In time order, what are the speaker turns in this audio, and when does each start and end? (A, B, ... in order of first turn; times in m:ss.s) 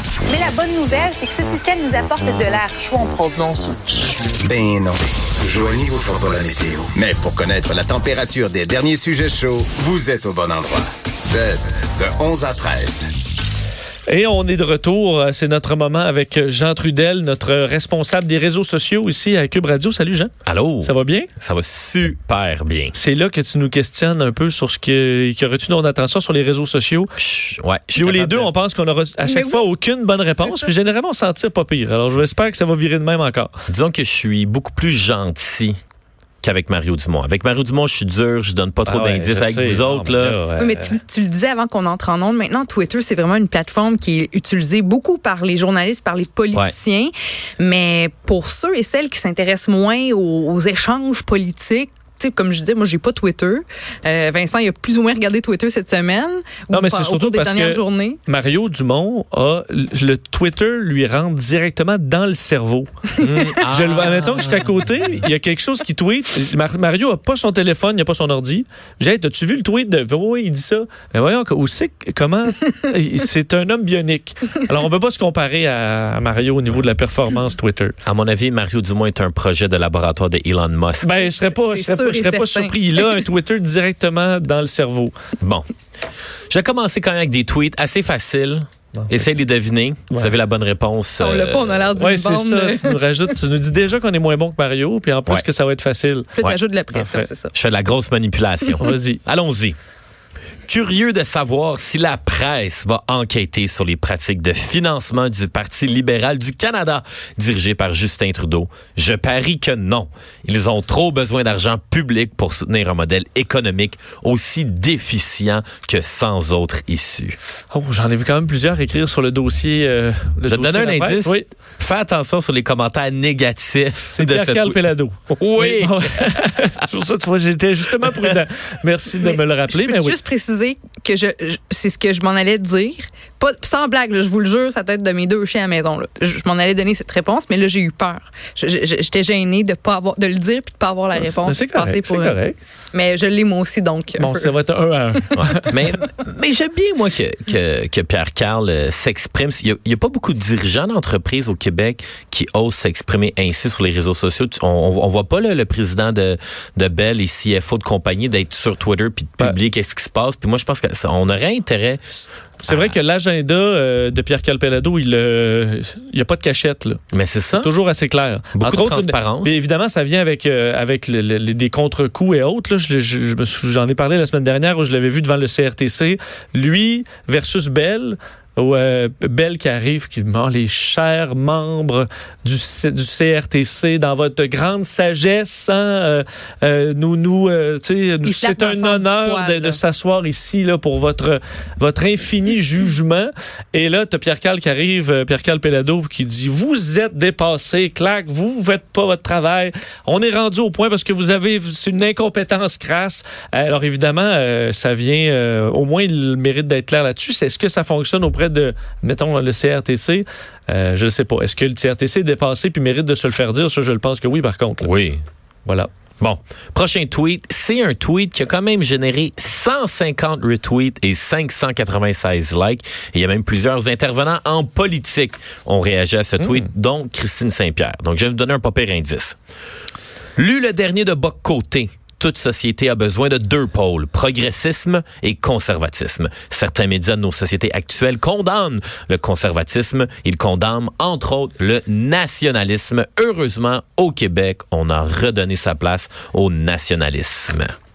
0:00.3-0:03.8 A
0:04.4-0:13.1 B
0:14.1-0:21.3 C
0:20.4-0:23.0 D
0:22.9-0:27.1 C
0:27.2-0:28.5 D
0:28.0-0:33.5 C
0:29.2-0:29.7 A
0:30.4-0:30.7 A
0:33.7-0:35.8 D
0:36.4-0:40.4 D
0:38.8-0:40.9 C
0:40.6-0:58.2 A
0:56.7-1:17.9 C
1:03.2-1:05.0 D
1:18.0-1:21.1 D
1:21.0-1:25.1 C
1:21.1-1:23.2 A
1:25.4-1:25.7 D
1:26.5-1:31.9 D
1:31.2-1:33.0 A
1:32.0-1:36.3 C
1:36.4-1:37.5 A
1:36.9-1:37.2 C
1:37.5-1:39.8 D
1:38.8-1:39.2 C
1:40.7-1:57.4 D
1:57.7-2:01.5 C
2:00.5-2:06.7 D
2:04.0-2:10.2 C
2:09.2-2:22.4 A
2:21.2-2:22.6 C
2:22.9-2:24.5 A
2:24.2-2:25.8 C
2:25.3-2:42.0 D
2:42.6-2:47.0 C
2:42.7-2:43.0 D
2:47.1-2:47.7 D
2:47.6-3:34.9 C
2:48.6-2:49.6 D
3:08.2-3:09.8 A
3:34.8-3:35.2 D
3:36.2-3:49.4 D
3:50.4-4:07.8 D